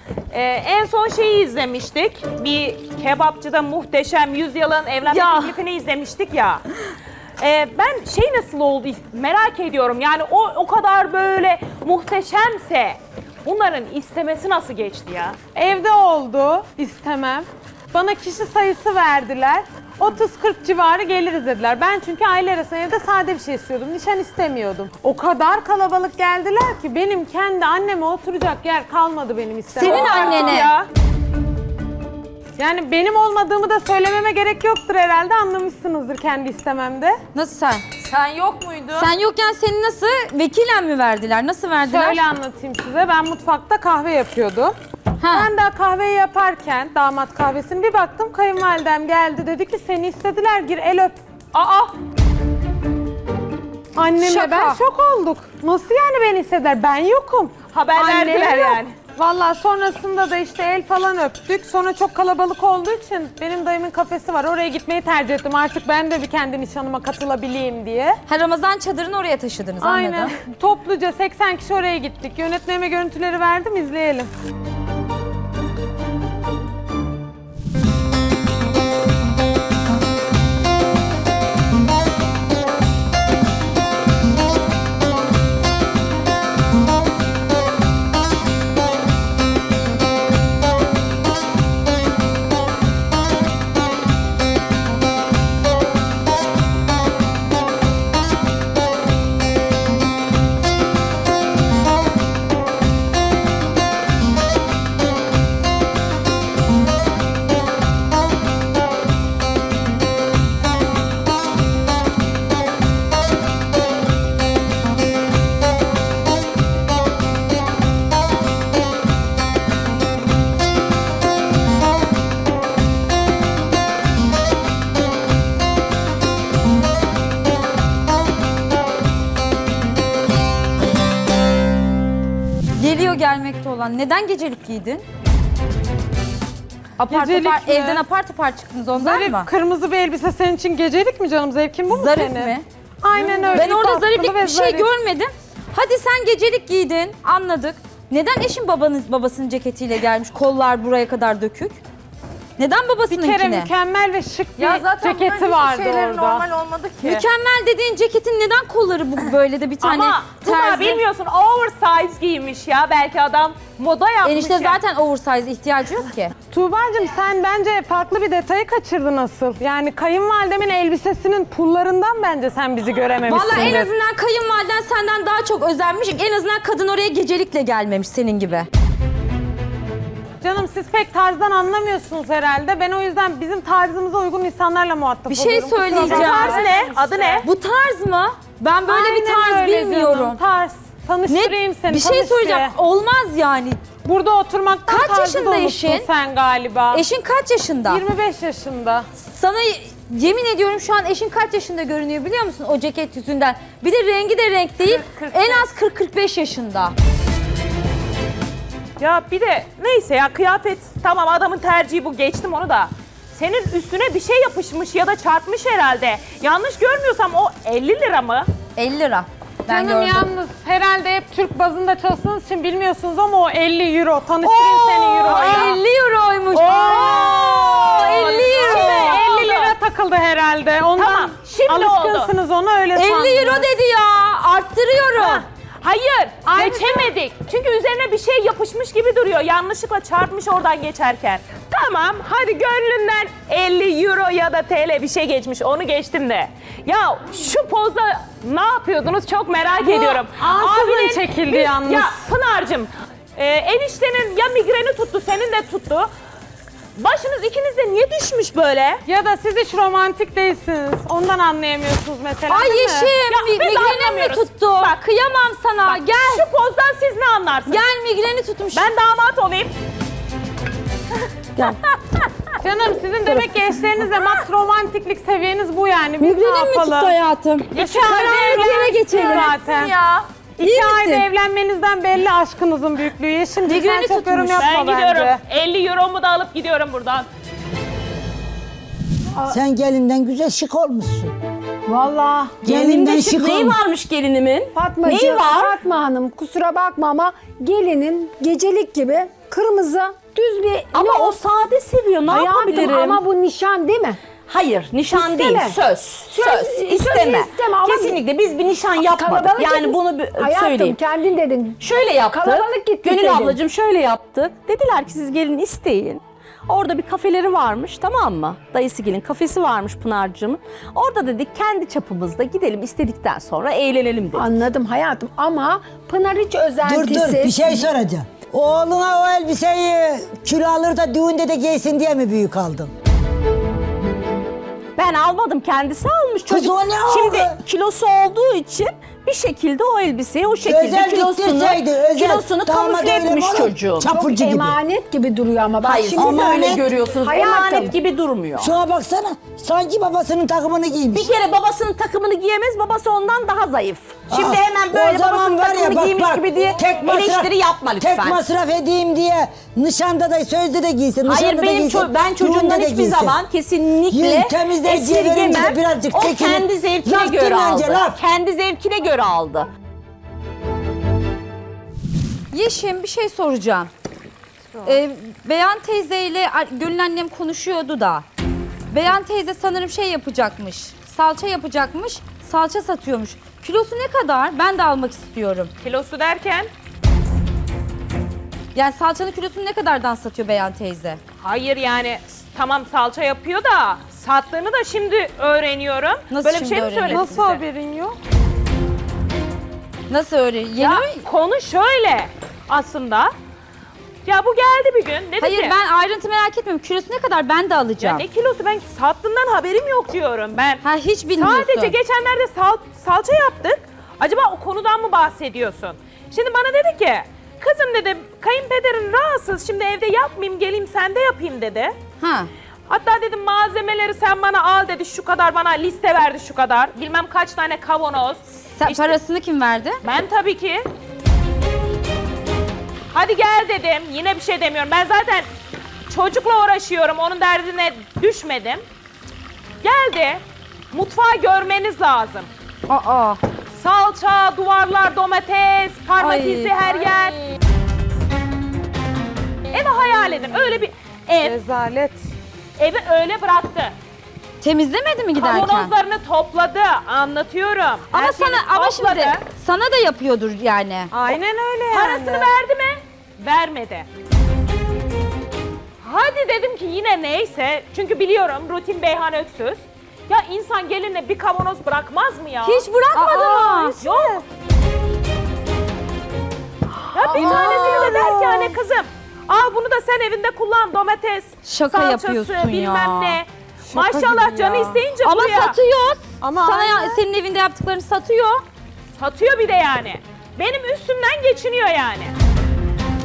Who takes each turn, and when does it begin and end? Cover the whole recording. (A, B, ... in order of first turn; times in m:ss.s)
0:00.3-0:06.6 A
0:05.1-0:05.5 B
0:07.4-0:15.4 A
0:15.5-0:30.6 C
0:29.7-0:30.7 B
0:29.8-0:30.9 A
0:32.6-0:37.2 C
0:37.3-0:37.8 B
0:38.0-0:39.1 A
0:38.9-0:42.2 B
0:41.8-0:44.8 C
0:45.2-0:45.5 B
0:45.3-0:51.2 C
0:51.5-0:51.9 A
0:53.9-1:08.2 C
0:54.2-0:54.8 B
0:57.7-0:58.9 A
1:08.3-1:10.3 B
1:09.8-1:14.3 C
2:12.8-2:15.0 B
2:17.0-2:19.5 B
2:17.1-2:18.0 C
2:18.9-2:24.9 C
2:21.9-2:31.8 B
2:32.6-2:33.7 B
2:33.1-2:36.5 C
2:34.6-2:36.5 B
2:36.9-2:37.2 A
2:37.0-2:41.0 B
2:39.8-2:44.8 A
2:44.2-2:46.3 B
2:46.5-2:53.9 C
2:53.2-2:58.7 B
3:00.4-3:07.4 C
3:05.3-3:06.7 B
3:05.9-3:07.4 A
3:07.4-3:10.4 B
3:08.8-3:12.7 C
3:11.2-3:13.8 B
3:14.0-3:17.0 C
3:14.8-3:16.1 B
3:16.9-3:18.0 B
3:17.9-3:19.1 C
3:19.2-3:26.9 B
3:24.9-3:25.7 C
3:29.0-3:38.5 A
3:38.8-3:40.3 B
3:39.7-3:45.7 C
3:44.4-3:49.3 B
3:45.2-3:45.8 A
3:46.5-3:49.7 A
3:48.1-3:53.7 C
3:51.0-3:52.3 A
3:52.9-3:55.4 B
3:55.2-4:16.1 A
3:56.4-3:57.1 C
4:09.8-4:12.2 C
4:16.9-4:19.0 A
4:19.0-4:23.1 C
4:22.5-4:26.4 B
4:23.3-4:25.0 A
4:25.8-4:27.8 A
4:27.6-4:28.9 B
4:28.7-4:29.7 A
4:32.6-4:37.2 C
4:33.2-4:34.0 B
4:36.2-4:41.3 B
4:37.7-4:38.8 A
4:37.8-4:39.9 C
4:40.6-4:45.4 C
4:43.6-4:44.7 B
4:44.6-4:47.3 A
4:49.4-4:51.3 D
4:51.9-4:52.6 E
4:52.6-4:53.8 D
4:52.6-4:55.8 F
4:54.7-5:01.4 E
5:00.9-5:03.2 F
5:02.3-5:04.2 E
5:04.5-5:11.0 F
5:05.1-5:08.2 E
5:09.1-5:13.6 E
5:11.8-5:24.5 F
5:24.3-5:27.9 E
5:26.8-5:32.9 D
5:35.0-5:44.1 F
5:36.5-5:37.6 D
5:40.6-5:44.8 D
5:44.1-5:47.9 E
5:45.8-5:48.8 F
5:46.2-5:46.8 D
5:48.6-5:51.3 D
5:51.1-5:58.4 F
5:54.3-6:03.4 D
6:01.2-6:09.7 F
6:04.1-6:08.2 D
6:12.5-6:13.9 B
6:14.8-6:18.2 B
6:18.9-6:25.7 B
6:25.8-6:26.7 A
6:28.7-6:31.2 B
6:31.4-6:37.6 A
6:36.3-6:37.4 B
6:37.1-6:38.2 C
6:40.1-6:41.2 B
6:40.8-6:43.3 A
6:44.2-6:45.8 A
6:45.4-6:48.2 B
6:48.0-7:01.9 A
6:50.8-6:52.0 B
7:02.2-7:02.5 B
7:02.9-7:09.2 A
7:08.8-7:10.0 B
7:10.0-7:10.8 A
7:13.1-7:15.5 A
7:16.1-7:18.8 A
7:19.8-7:22.5 A
7:22.9-7:23.4 B
7:23.7-7:27.4 A
7:26.2-7:26.7 B
7:29.7-7:31.6 A
7:31.4-7:32.2 C
7:32.8-7:33.9 A
7:34.6-7:35.9 B
7:35.3-7:39.4 A
7:38.1-7:41.1 B
7:41.1-7:42.5 C
7:41.9-7:44.1 A
7:46.0-7:52.9 A
7:52.6-7:54.0 B
7:53.1-7:54.4 C
7:54.0-7:54.4 A
7:57.1-8:05.8 A
7:57.2-7:58.2 B
7:57.3-7:58.8 C
8:01.6-8:03.4 B
8:03.9-8:05.0 C
8:05.2-8:08.6 B
8:06.4-8:07.2 C
8:09.2-8:12.3 A